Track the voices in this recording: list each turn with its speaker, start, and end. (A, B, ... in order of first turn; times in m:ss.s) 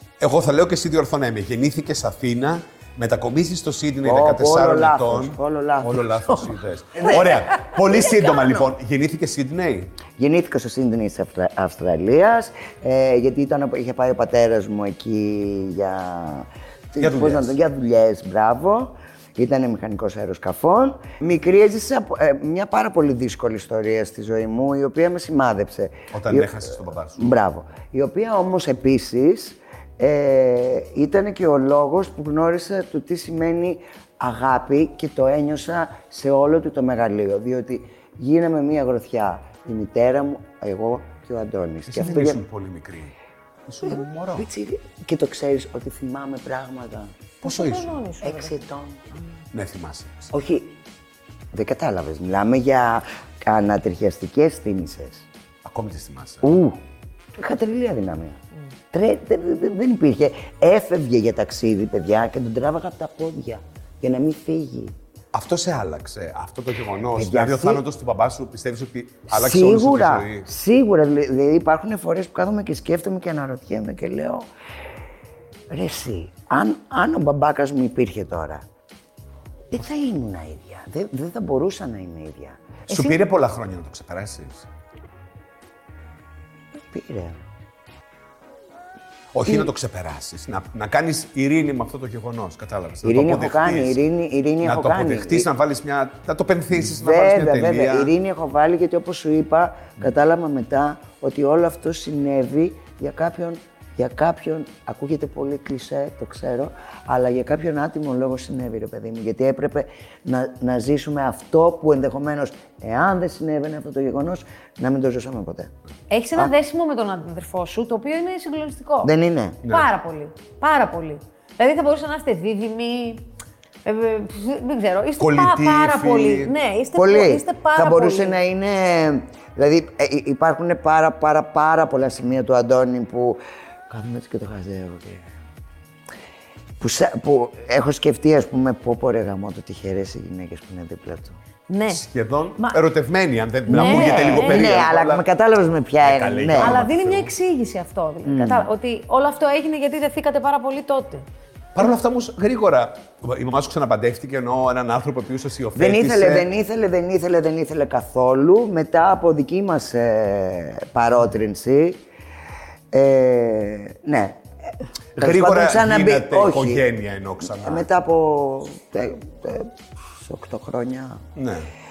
0:00.2-0:10.0 A
0:04.0-0:08.5 B
0:10.2-0:42.4 B
0:17.0-0:17.6 A
0:26.1-0:27.3 A
0:41.9-0:43.1 A
0:43.7-0:44.5 A
0:43.8-0:47.1 B
0:47.4-0:48.0 A
0:47.4-0:48.6 C
0:48.2-0:49.0 B
0:49.5-0:50.3 A
0:50.3-0:50.8 B
0:51.5-0:55.3 B
0:55.6-0:56.5 A
0:56.4-0:56.8 B
0:57.4-0:58.4 B
0:58.9-1:04.9 B
1:05.3-1:10.5 A
1:07.1-1:07.8 B
1:09.3-1:14.5 B
1:15.7-1:18.6 B
1:19.7-1:22.6 B
1:22.9-1:23.2 C
1:22.9-1:24.7 A
1:26.9-1:27.4 B
1:29.3-1:34.0 A
1:33.0-1:35.5 B
1:34.6-1:38.1 A
1:36.8-1:55.7 B
1:56.1-1:59.1 C
1:59.0-1:59.6 B
1:59.6-1:59.9 A
1:59.6-2:03.3 C
2:03.8-2:08.4 C
2:05.2-2:06.5 A
2:07.0-2:15.3 B
2:16.8-2:21.4 B
2:21.7-2:22.0 C
2:21.9-2:25.2 A
2:23.7-2:24.7 C
2:23.7-2:26.8 B
2:26.0-2:27.3 A
2:26.6-2:31.2 C
2:28.2-2:28.7 B
2:31.8-2:36.5 A
2:35.8-2:42.0 B
2:42.9-2:44.4 B
2:45.2-2:47.8 A
2:45.2-2:46.9 B
2:47.4-2:51.2 B
2:51.4-2:51.7 A